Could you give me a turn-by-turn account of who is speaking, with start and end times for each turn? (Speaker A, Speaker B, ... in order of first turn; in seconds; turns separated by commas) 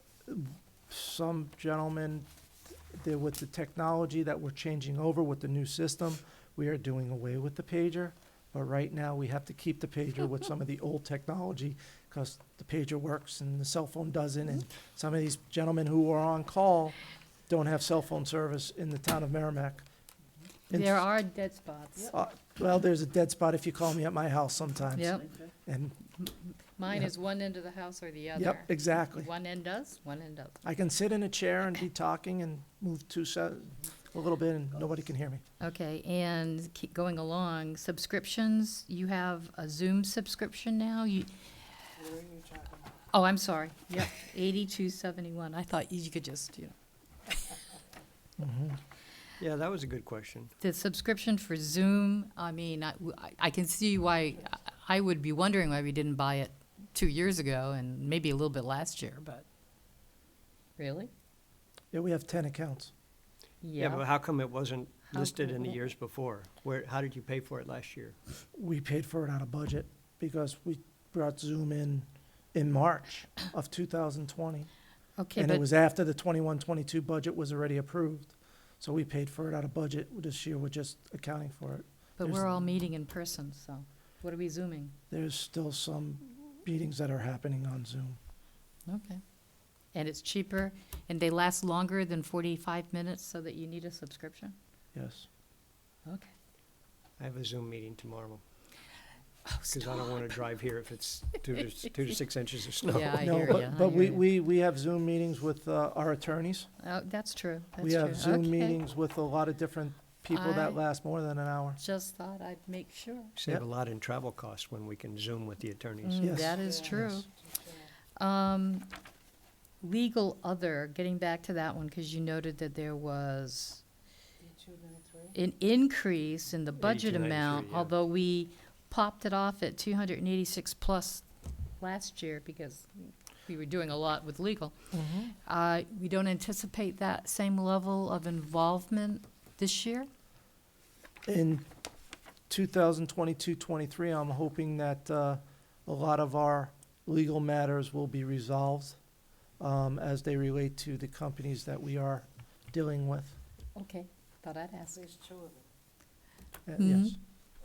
Speaker A: 0.3-2.3, Speaker A: 2.9-17.0, Speaker A: 17.5-19.9, Speaker A: 20.7-21.0, Speaker B: 20.7-22.1, Speaker A: 22.1-26.0, Speaker B: 24.9-25.3, Speaker B: 26.2-30.6, Speaker A: 28.4-29.3, Speaker A: 30.6-35.4, Speaker B: 35.6-41.3, Speaker B: 43.1-46.8, Speaker B: 47.3-47.6, Speaker A: 48.4-48.8, Speaker C: 49.4-50.5, Speaker B: 50.6-59.5, Speaker B: 60.8-61.1, Speaker A: 61.9-62.9, Speaker B: 63.6-64.1, Speaker C: 63.8-68.2, Speaker B: 65.2-65.8, Speaker A: 68.5-74.7, Speaker B: 75.2-75.7, Speaker A: 75.3-82.6, Speaker B: 82.2-84.9, Speaker A: 85.1-88.2, Speaker B: 88.9-89.2, Speaker B: 89.9-94.5, Speaker A: 94.9-95.3, Speaker B: 96.1-96.3, Speaker C: 97.2-98.4, Speaker B: 99.5-100.4, Speaker C: 99.7-103.4, Speaker B: 102.9-104.2, Speaker A: 103.2-106.7, Speaker B: 106.8-108.8, Speaker A: 107.8-111.8, Speaker B: 110.3-110.8, Speaker B: 111.8-113.3, Speaker C: 113.4-116.5, Speaker B: 116.0-117.3, Speaker A: 116.2-117.2, Speaker B: 118.2-118.9, Speaker B: 119.8-123.8, Speaker B: 125.3-131.2, Speaker C: 126.8-127.9, Speaker B: 131.8-134.8, Speaker A: 134.9-135.3, Speaker B: 135.3-140.1, Speaker A: 141.3-141.7, Speaker A: 142.5-149.0, Speaker A: 149.6-153.4, Speaker B: 153.8-155.1, Speaker A: 156.7-157.2, Speaker B: 156.8-157.2